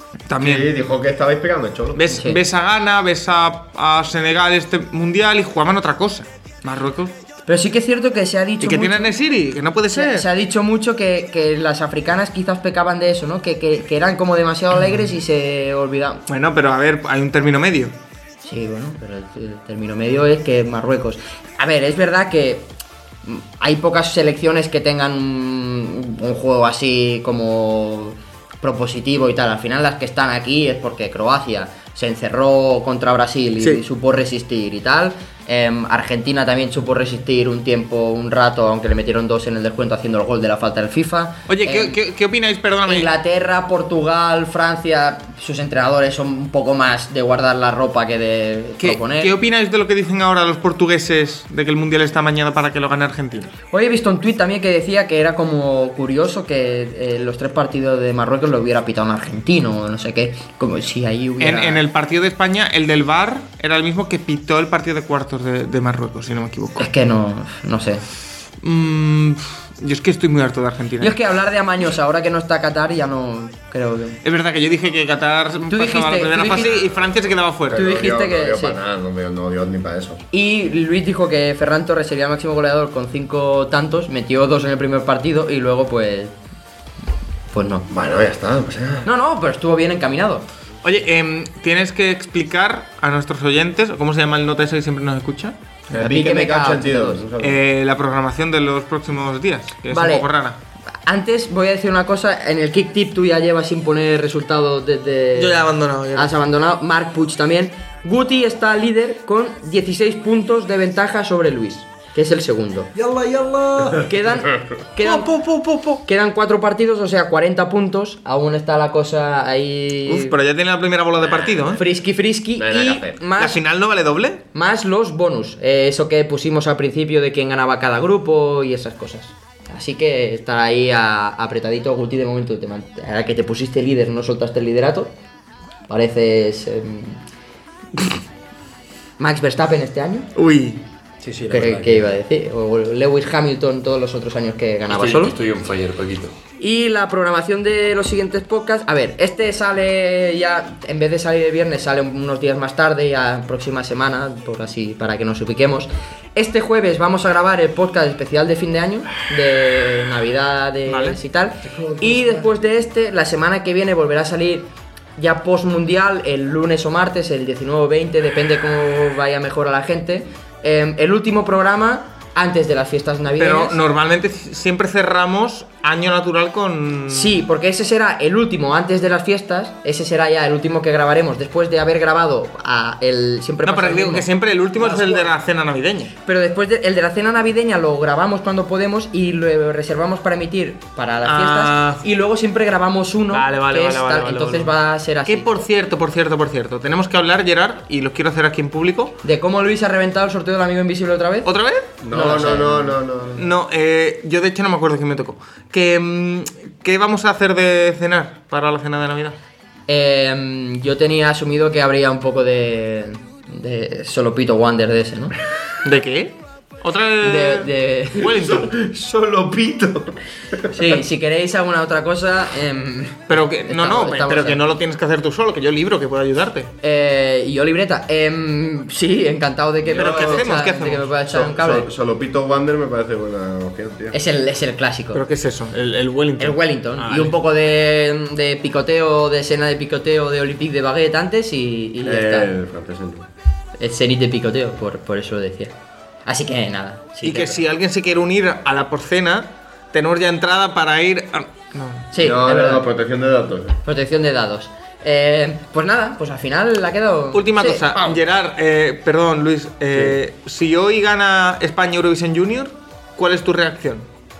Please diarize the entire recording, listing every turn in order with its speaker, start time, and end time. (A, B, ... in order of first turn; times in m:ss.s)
0:00.3-0:00.7 A
0:00.4-0:02.0 B
0:02.0-0:07.2 A
0:02.1-0:02.4 C
0:07.5-0:09.2 C
0:08.6-0:10.3 A
0:09.9-0:16.2 C
0:16.3-0:17.9 A
0:18.4-0:22.7 C
0:23.2-0:42.0 C
0:41.5-0:43.1 A
0:42.9-0:49.4 C
0:48.8-0:53.5 A
0:53.7-1:01.8 C
1:01.4-1:06.8 A
1:06.8-1:08.0 C
1:08.6-1:11.2 A
1:11.0-1:14.2 C
1:14.2-1:17.8 A
1:15.7-1:16.8 C
1:17.7-1:20.2 B
1:17.7-1:18.8 C
1:20.3-1:26.4 C
1:27.5-1:27.9 C
1:27.9-1:29.1 B
1:29.0-1:30.4 C
1:30.8-1:36.0 A
1:35.9-1:37.6 B
1:36.0-1:37.2 C
1:37.4-1:40.6 A
1:39.9-1:40.3 C
1:41.0-1:53.0 C
1:45.4-1:46.3 A
1:53.0-1:54.1 D
1:54.0-2:00.4 C
1:55.0-1:56.0 A
2:00.1-2:01.8 A
2:01.2-2:01.8 B
2:01.8-2:03.6 C
2:02.6-2:03.2 B
2:03.4-2:04.4 A
2:04.5-2:15.1 C
2:15.9-2:17.2 C
2:19.2-2:20.3 C
2:20.4-2:20.8 A
2:21.2-2:22.1 D
2:21.5-2:25.4 C
2:25.0-2:26.4 D
2:26.6-2:53.8 C
2:40.9-2:41.2 A
2:41.6-2:42.5 D
2:53.4-2:57.4 A
2:57.1-3:05.3 C
3:03.6-3:06.1 A
3:06.2-3:15.5 C
3:11.2-3:12.0 A
3:13.3-3:14.7 A
3:15.3-3:19.2 A
3:19.2-3:21.5 C
3:21.4-3:21.9 A
3:22.0-3:23.5 B
3:22.1-3:23.0 C
3:23.4-3:29.4 A
3:29.9-3:35.4 C
3:35.8-3:38.7 A
3:37.2-3:38.3 C
3:38.2-3:40.8 B
3:40.7-3:44.6 C
3:43.3-3:46.7 A
3:46.8-3:51.9 C
3:49.8-3:50.5 B
3:49.9-3:51.1 A
3:51.3-3:54.2 B
3:54.1-3:55.2 C
3:55.1-3:57.3 A
3:56.4-4:02.5 C
4:02.0-4:03.3 B
4:03.8-4:05.8 C
4:06.3-4:07.6 C
4:07.2-4:12.1 A
4:12.1-4:12.8 C
4:12.2-4:13.8 B
4:13.8-4:18.1 C
4:17.3-4:24.1 A